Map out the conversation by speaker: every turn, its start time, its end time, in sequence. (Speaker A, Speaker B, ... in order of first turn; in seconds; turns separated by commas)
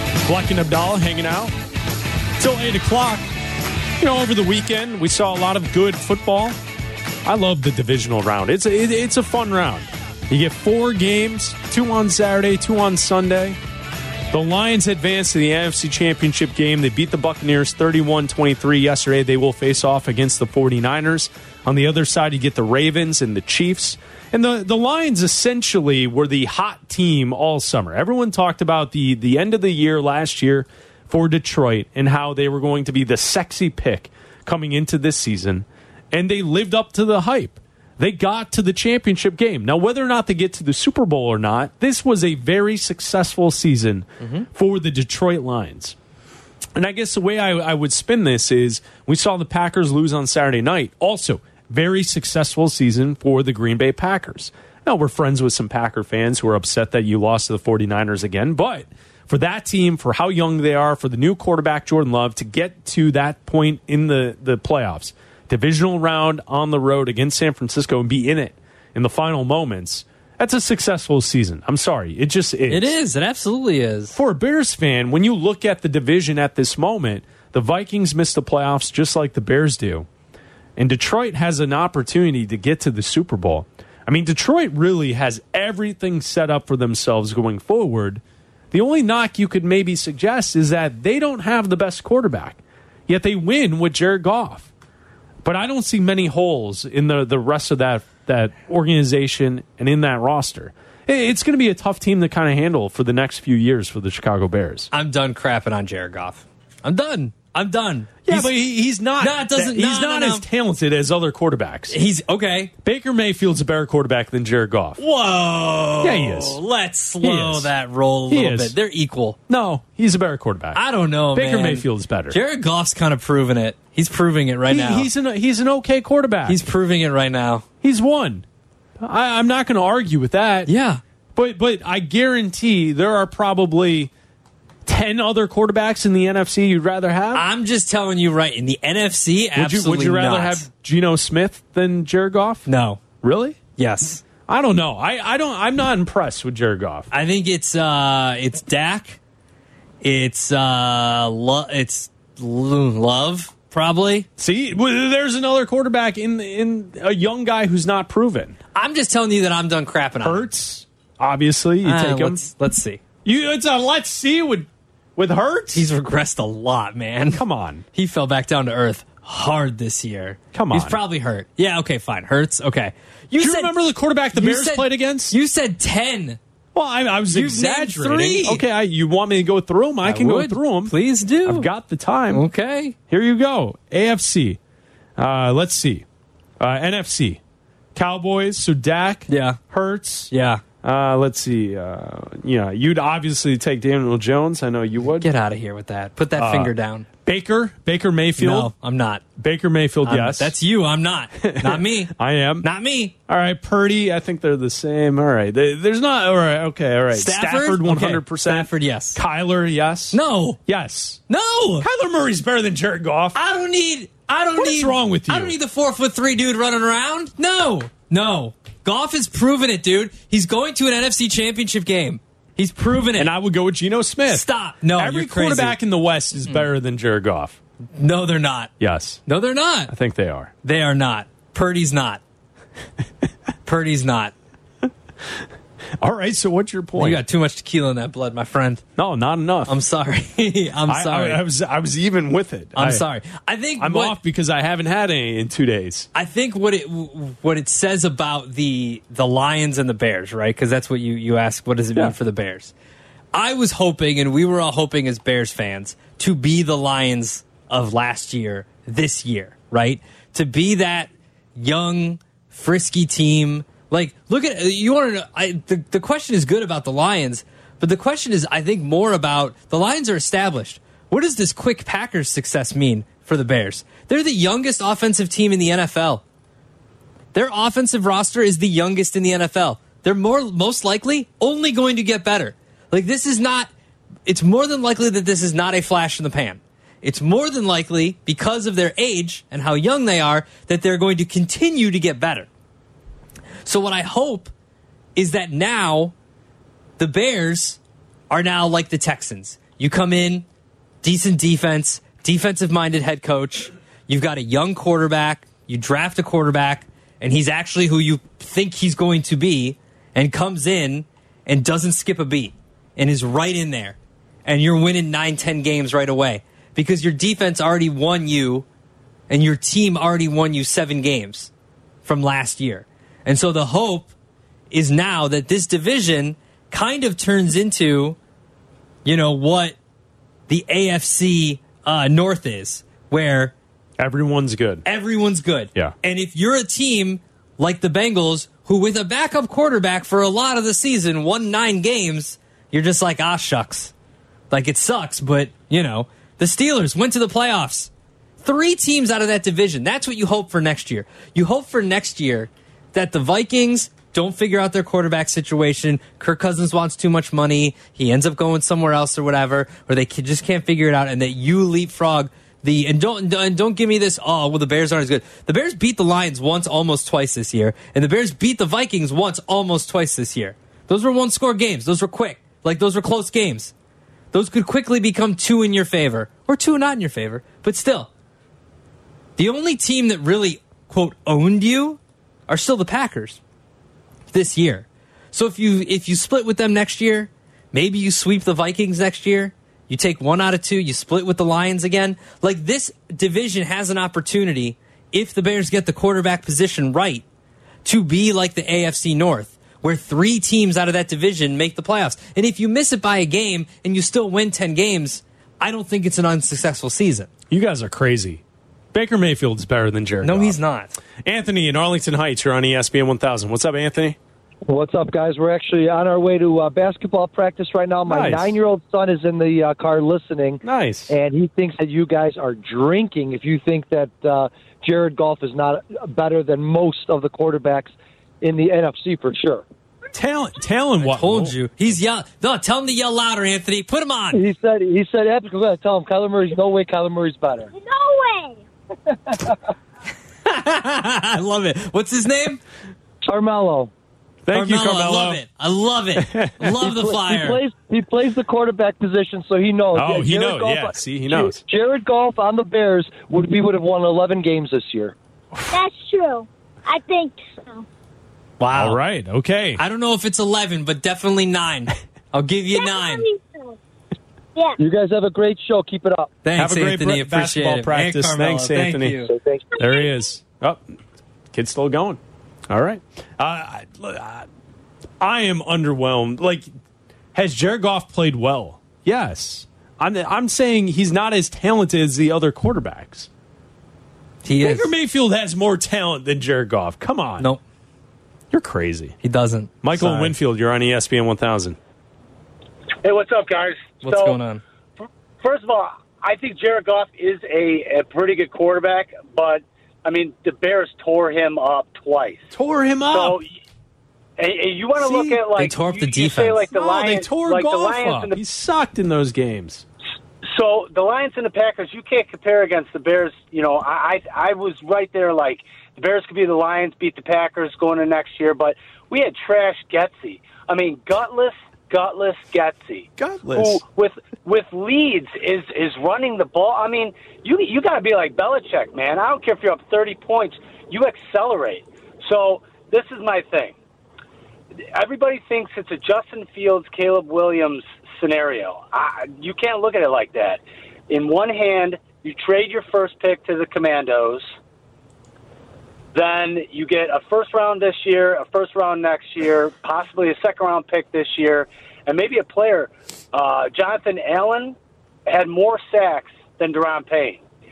Speaker A: 0.2-1.5, Speaker A: 2.4-3.3, Speaker A: 4.0-6.6, Speaker A: 7.2-13.6, Speaker A: 14.3-46.0, Speaker A: 46.8-72.9, Speaker B: 72.7-74.2, Speaker A: 74.2-80.1, Speaker A: 80.8-94.7, Speaker A: 95.4-104.9, Speaker B: 104.9-108.6, Speaker A: 108.3-112.0, Speaker B: 109.2-110.5, Speaker B: 111.9-112.7, Speaker A: 112.8-115.0, Speaker B: 115.0-119.4, Speaker A: 116.0-116.6, Speaker A: 117.2-117.7, Speaker A: 118.3-118.8, Speaker A: 119.5-120.8, Speaker B: 120.7-125.1, Speaker A: 121.3-122.4, Speaker A: 124.7-126.6, Speaker B: 126.5-127.7, Speaker A: 127.8-128.4, Speaker A: 129.0-130.7, Speaker B: 130.7-131.0, Speaker A: 131.4-134.1, Speaker A: 134.9-137.4, Speaker B: 137.3-140.7, Speaker A: 139.6-142.7, Speaker B: 142.7-143.0, Speaker A: 143.2-143.6, Speaker B: 143.8-144.2, Speaker A: 144.5-147.1, Speaker B: 147.1-149.2, Speaker B: 150.0-154.3, Speaker A: 154.4-158.6, Speaker B: 158.8-160.5, Speaker A: 160.2-162.4, Speaker B: 161.8-163.0, Speaker A: 163.2-165.9, Speaker B: 165.7-167.4, Speaker A: 167.3-167.8, Speaker B: 167.9-173.8, Speaker A: 170.5-171.0, Speaker A: 173.4-175.3, Speaker B: 174.3-176.4, Speaker A: 176.7-182.4, Speaker B: 177.3-178.6, Speaker B: 180.0-181.7, Speaker B: 182.3-182.9, Speaker A: 183.1-184.6, Speaker A: 185.2-186.1, Speaker A: 186.6-187.4, Speaker A: 187.9-190.3, Speaker B: 189.3-189.6, Speaker B: 190.3-190.6, Speaker A: 190.8-195.3, Speaker B: 195.2-197.1, Speaker A: 196.3-196.7, Speaker A: 197.2-198.7, Speaker B: 198.4-199.2, Speaker A: 199.4-200.5, Speaker B: 200.0-203.1, Speaker A: 201.4-202.7, Speaker A: 203.3-211.2, Speaker B: 207.1-209.2, Speaker B: 210.1-210.6, Speaker B: 211.3-211.9, Speaker A: 211.8-213.4, Speaker B: 213.3-223.3, Speaker A: 214.6-215.6, Speaker A: 223.2-227.6, Speaker B: 224.3-225.8, Speaker B: 228.0-228.7, Speaker A: 228.8-229.2, Speaker B: 229.3-229.9, Speaker A: 229.9-230.5, Speaker B: 230.6-232.2, Speaker B: 233.7-234.3, Speaker A: 236.0-237.2, Speaker B: 237.0-238.8, Speaker A: 239.0-239.7, Speaker B: 239.7-241.4, Speaker A: 240.9-243.1, Speaker B: 242.8-244.2, Speaker A: 243.8-246.1, Speaker B: 246.1-252.7, Speaker B: 253.3-276.2, Speaker B: 277.3-283.7, Speaker B: 284.3-292.5, Speaker B: 293.6-294.5, Speaker B: 295.2-296.1, Speaker B: 297.0-297.8, Speaker B: 298.3-300.5, Speaker B: 301.0-318.7, Speaker B: 319.3-321.5, Speaker B: 322.1-324.1, Speaker B: 324.7-328.2, Speaker B: 329.1-329.8, Speaker B: 330.5-333.6, Speaker A: 334.0-334.8, Speaker B: 334.9-343.9, Speaker B: 344.5-347.9, Speaker B: 348.4-373.7, Speaker B: 374.3-378.1, Speaker B: 379.4-383.4, Speaker B: 384.3-397.2, Speaker B: 397.8-407.3, Speaker A: 407.5-408.4, Speaker A: 408.9-410.6, Speaker B: 410.2-411.0, Speaker A: 411.2-414.2, Speaker C: 414.7-429.6, Speaker A: 418.1-418.5, Speaker A: 420.6-421.1, Speaker A: 430.1-431.6, Speaker B: 431.0-434.4, Speaker C: 434.3-437.7, Speaker D: 437.7-438.6, Speaker C: 439.3-439.6, Speaker B: 440.4-442.6, Speaker C: 443.2-443.9, Speaker A: 444.5-445.4, Speaker B: 444.5-447.6, Speaker A: 446.2-446.9, Speaker C: 446.9-455.1, Speaker A: 449.9-451.6, Speaker D: 455.7-457.9, Speaker B: 458.6-459.0, Speaker A: 458.7-459.8, Speaker B: 459.8-463.3, Speaker D: 462.7-463.8, Speaker D: 464.6-464.8, Speaker C: 464.8-466.3, Speaker B: 466.4-469.3, Speaker A: 466.6-469.2, Speaker C: 469.3-469.6, Speaker D: 469.7-470.1, Speaker A: 469.8-470.8, Speaker A: 471.5-474.5, Speaker A: 475.2-476.7, Speaker A: 477.3-483.3, Speaker B: 484.4-484.9, Speaker A: 484.6-487.5, Speaker A: 488.5-489.1, Speaker B: 489.2-490.4, Speaker A: 489.8-491.8, Speaker E: 493.0-494.4, Speaker B: 494.0-494.6, Speaker E: 495.4-502.5, Speaker A: 502.5-503.4, Speaker E: 503.1-503.5, Speaker E: 504.4-508.4, Speaker A: 505.0-505.4, Speaker B: 505.6-506.6, Speaker A: 506.7-509.9, Speaker E: 510.4-533.8, Speaker A: 523.2-523.8, Speaker E: 534.9-544.5, Speaker E: 546.1-557.4